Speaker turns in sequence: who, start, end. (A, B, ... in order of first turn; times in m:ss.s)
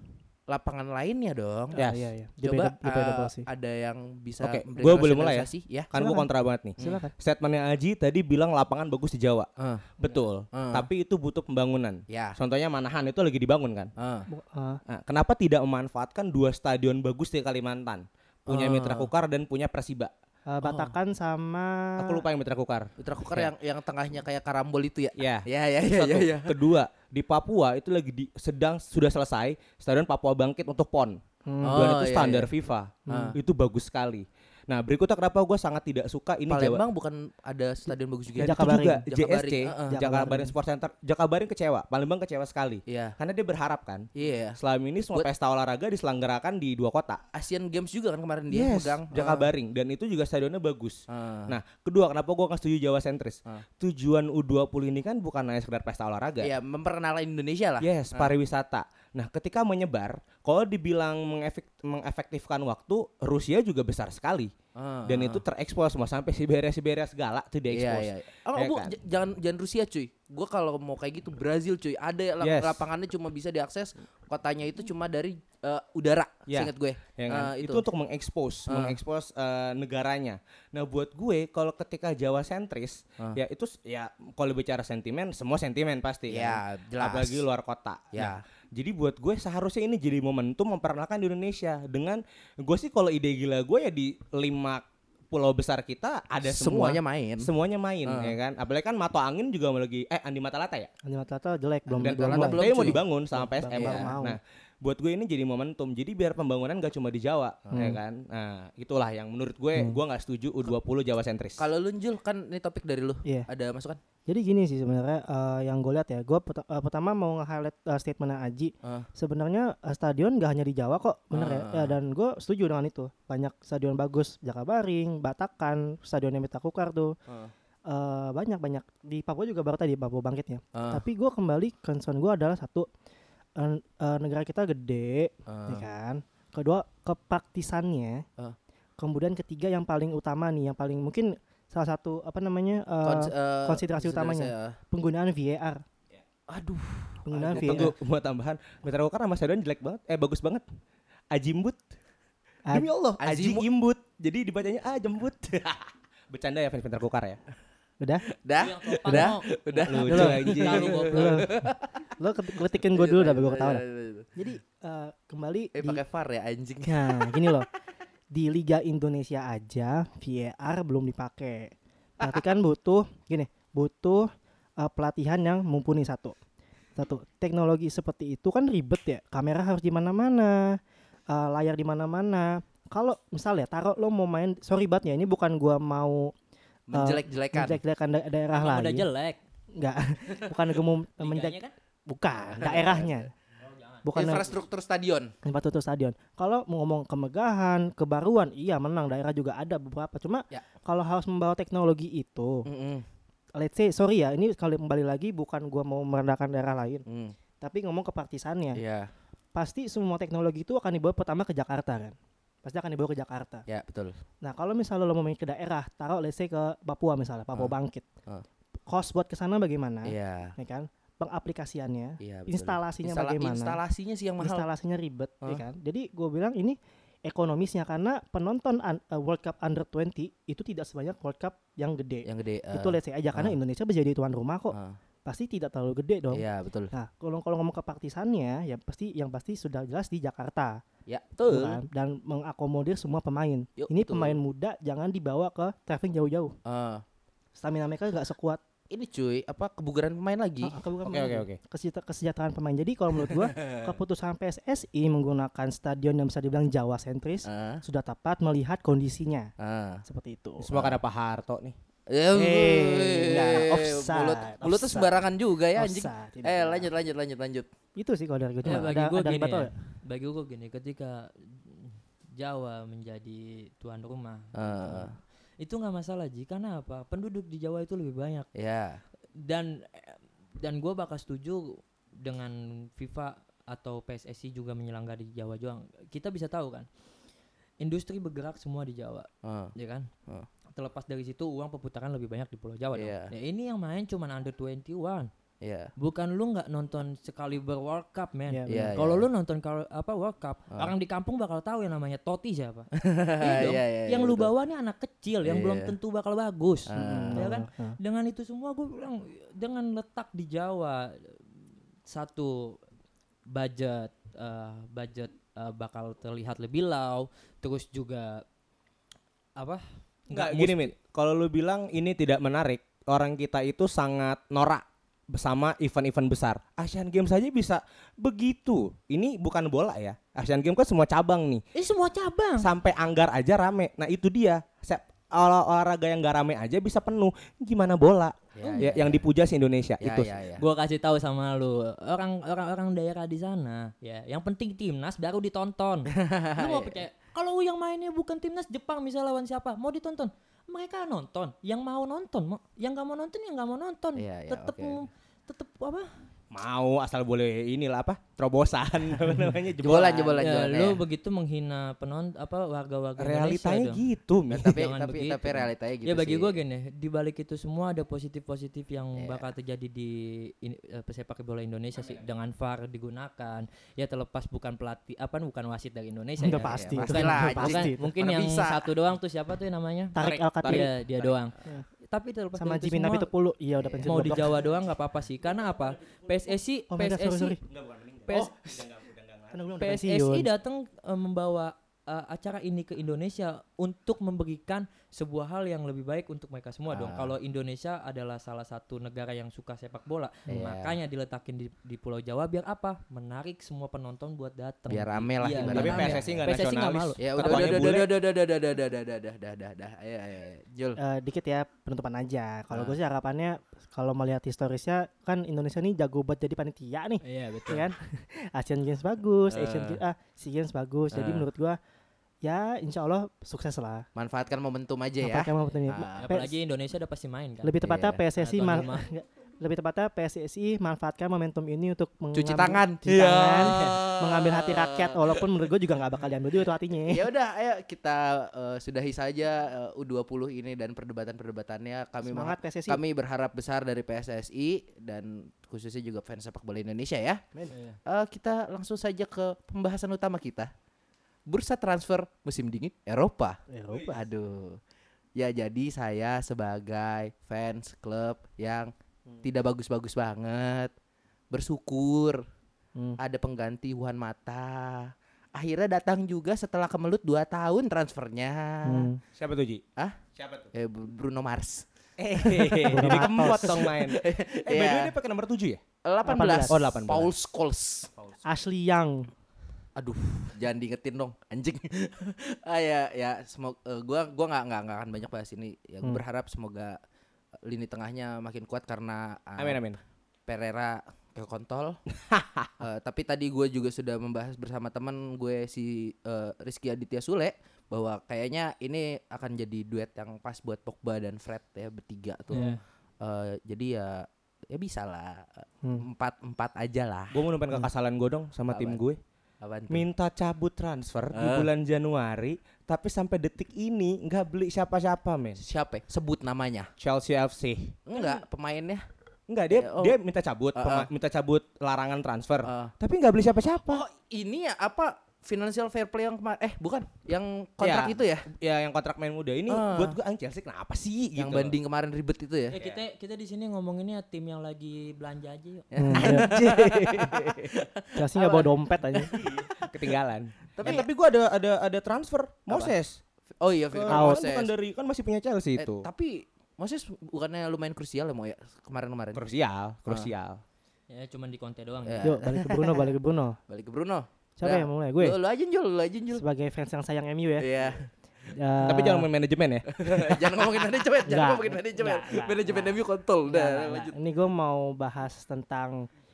0:00.5-0:01.8 A
0:01.7-0:03.5 B
0:01.8-0:02.1 C
0:02.4-0:05.9 A
0:04.4-0:09.5 C
0:05.9-0:06.3 B
0:06.8-0:07.1 B
0:09.6-0:10.9 A
0:10.0-0:13.9 C
0:12.1-0:12.4 A
0:14.0-0:14.3 A
0:14.3-0:14.8 B
0:14.9-0:20.1 C
0:18.5-0:19.1 A
0:20.5-0:22.2 B
0:20.6-0:20.9 A
0:22.0-0:23.5 C
0:23.0-0:26.6 A
0:25.2-0:31.2 C
0:31.5-0:32.0 B
0:31.6-0:32.5 A
0:31.7-0:36.8 C
0:33.1-0:33.4 B
0:33.1-0:33.4 A
0:36.5-0:40.2 A
0:38.4-0:39.0 B
0:38.4-0:47.2 C
0:39.9-0:40.5 B
0:42.9-0:43.2 A
0:44.2-0:44.6 A
0:47.3-0:49.5 A
0:48.5-0:56.5 C
0:51.1-0:51.6 A
0:56.4-0:58.3 A
0:57.8-1:04.5 C
1:04.8-1:05.4 A
1:05.1-1:08.9 C
1:07.7-1:17.8 A
1:12.4-1:12.9 C
1:16.5-1:40.9 C
1:18.7-1:19.0 A
1:26.3-1:27.4 A
1:28.1-1:28.4 A
1:36.4-1:37.5 A
1:38.0-1:38.4 A
1:41.0-1:44.4 B
1:41.9-1:43.0 A
1:42.0-1:51.6 C
1:43.7-1:44.1 A
1:47.6-1:47.9 A
1:47.7-1:48.0 B
1:49.7-1:50.0 B
1:51.6-1:54.0 A
1:54.2-2:07.2 B
1:58.8-1:59.1 A
2:01.3-2:01.9 A
2:07.3-2:07.5 A
2:07.9-2:12.9 B
2:10.7-2:11.0 A
2:13.6-2:18.2 B
2:15.5-2:15.8 A
2:19.0-2:25.8 B
2:23.0-2:24.8 A
2:26.5-2:27.9 A
2:27.2-2:27.9 B
2:27.5-2:30.6 C
2:31.3-2:31.8 C
2:32.7-2:37.4 C
2:33.2-2:33.7 A
2:38.4-2:42.1 A
2:38.6-2:41.4 D
2:39.8-2:41.1 C
2:40.1-2:40.6 B
2:41.1-2:43.8 B
2:42.8-2:44.3 A
2:44.4-2:46.0 B
2:45.7-2:47.6 A
2:46.8-2:47.7 B
2:48.3-2:56.4 B
2:57.0-3:00.8 B
3:01.3-3:06.3 B
3:06.9-3:07.8 A
3:06.9-3:09.1 B
3:08.5-3:09.4 D
3:09.8-3:13.3 B
3:11.2-3:11.7 D
3:12.3-3:13.2 A
3:13.6-3:14.3 D
3:14.0-3:14.5 B
3:14.1-3:15.3 A
3:15.4-3:22.7 B
3:22.6-3:23.0 A
3:23.6-3:27.0 B
3:27.1-3:27.4 A
3:27.6-3:28.8 B
3:28.7-3:29.1 A
3:29.5-3:33.6 B
3:33.7-3:34.2 A
3:34.4-3:38.0 B
3:38.9-3:43.8 B
3:40.0-3:40.5 A
3:42.2-3:44.7 A
3:44.4-4:00.8 B
3:52.2-3:53.6 A
3:54.7-3:55.0 A
3:56.3-3:56.9 A
4:01.1-4:01.8 A
4:01.4-4:06.5 B
4:03.8-4:04.4 A
4:06.6-4:07.0 A
4:07.5-4:08.6 B
4:08.9-4:10.8 A
4:10.6-4:19.5 B
4:11.0-4:11.6 C
4:13.3-4:14.0 A
4:17.4-4:17.8 A
4:19.6-4:20.0 A
4:20.0-4:20.7 B
4:20.6-4:21.8 C
4:20.7-4:21.0 A
4:22.1-4:27.7 A
4:22.3-4:25.2 B
4:25.7-4:26.9 B
4:28.0-4:29.7 B
4:28.6-4:38.5 D
4:34.5-4:35.1 A
4:38.5-4:39.0 A
4:39.4-4:46.9 D
4:47.8-4:50.1 D
4:49.4-4:49.7 A
4:50.7-4:55.3 D
4:53.0-4:53.3 A
4:55.6-4:55.9 A
4:56.0-5:11.4 D
4:58.5-4:58.9 B
4:58.7-4:59.2 A
5:03.0-5:04.5 A
5:05.4-5:05.9 A
5:06.9-5:07.4 A
5:07.0-5:08.0 B
5:12.0-5:12.8 D
5:13.5-5:18.4 D
5:19.6-5:20.9 D
5:20.3-5:31.6 C
5:31.7-5:32.7 D
5:32.6-5:40.3 C
5:38.6-5:39.2 A
5:38.6-5:39.0 D
5:40.0-5:40.6 A
5:40.6-5:56.1 D
5:46.2-5:47.0 A
5:54.2-5:55.0 A
5:56.5-6:00.4 C
5:59.8-6:01.0 A
6:00.4-6:04.0 D
6:03.2-6:04.8 C
6:04.5-6:06.6 A
6:04.6-6:23.3 D
6:09.2-6:09.4 A
6:16.4-6:18.0 B
6:16.7-6:18.9 A
6:20.1-6:20.9 B
6:20.2-6:21.4 C
6:22.6-6:24.6 B
6:24.0-6:27.6 D
6:26.9-6:27.6 B
6:27.6-6:29.6 C
6:29.5-6:30.5 B
6:29.8-6:47.9 D
6:36.9-6:37.3 A
6:40.5-6:40.9 A
6:44.9-6:46.5 A
6:45.6-6:48.1 C
6:47.2-6:51.0 A
6:51.0-7:01.8 B
6:52.7-6:53.0 A
6:57.2-6:57.9 D
6:59.5-7:00.0 A
7:01.1-7:01.4 A
7:02.4-7:04.0 B
7:04.2-7:06.2 A
7:05.2-7:06.5 B
7:06.1-7:07.8 D
7:07.6-7:17.3 B
7:07.8-7:08.2 A
7:08.4-7:09.1 D
7:12.3-7:15.5 A
7:13.7-7:14.0 D
7:17.1-7:27.4 A
7:22.2-7:23.0 B
7:27.7-7:28.0 D
7:28.0-7:30.7 A
7:31.5-7:34.8 A
7:33.7-7:34.2 B
7:35.4-7:38.9 A
7:39.4-7:40.9 A
7:41.5-7:42.4 A
7:43.2-7:49.1 A
7:48.8-7:49.2 B
7:49.4-7:49.8 C
7:50.3-7:50.7 C
7:50.7-7:55.2 A
7:52.2-7:55.8 C
7:52.9-7:53.8 B
7:56.0-7:58.1 A
7:56.2-7:56.8 B
7:56.7-7:57.3 C
7:58.4-7:59.3 B
8:00.0-8:07.0 A
8:07.6-8:09.8 A
8:09.6-8:10.0 C
8:10.5-8:12.0 A
8:12.3-8:12.7 C
8:12.8-8:22.7 A
8:22.5-8:22.8 D
8:23.2-8:27.4 A
8:27.3-8:29.2 C
8:28.7-8:29.0 A
8:29.6-8:30.0 A
8:29.9-8:35.6 C
8:31.3-8:31.7 A
8:35.6-8:36.9 A
8:37.0-8:38.0 C
8:38.1-8:39.0 A
8:39.5-8:44.0 C
8:39.7-8:40.2 A
8:40.7-8:41.1 A
8:42.6-8:42.9 A
8:43.9-8:48.5 A
8:47.8-8:51.8 C
8:49.7-8:50.2 A
8:51.4-8:52.8 A
8:52.7-8:55.9 D
8:55.9-9:00.2 A
8:56.0-8:56.5 B
8:56.2-8:57.6 C
8:58.1-8:59.3 B
8:59.3-9:03.2 C
9:00.7-9:01.1 A
9:02.7-9:02.9 A
9:03.6-9:04.7 A
9:03.9-9:06.1 C
9:04.1-9:04.4 B
9:05.8-9:09.4 A
9:09.3-9:10.6 C
9:11.1-9:12.3 D
9:12.0-9:13.1 A
9:12.2-9:13.6 B
9:13.7-9:16.4 A
9:14.6-9:15.4 B
9:16.3-9:17.7 B
9:17.6-9:18.1 A
9:18.5-9:19.3 B
9:18.8-9:20.8 C
9:19.9-9:24.2 A
9:21.2-9:26.1 B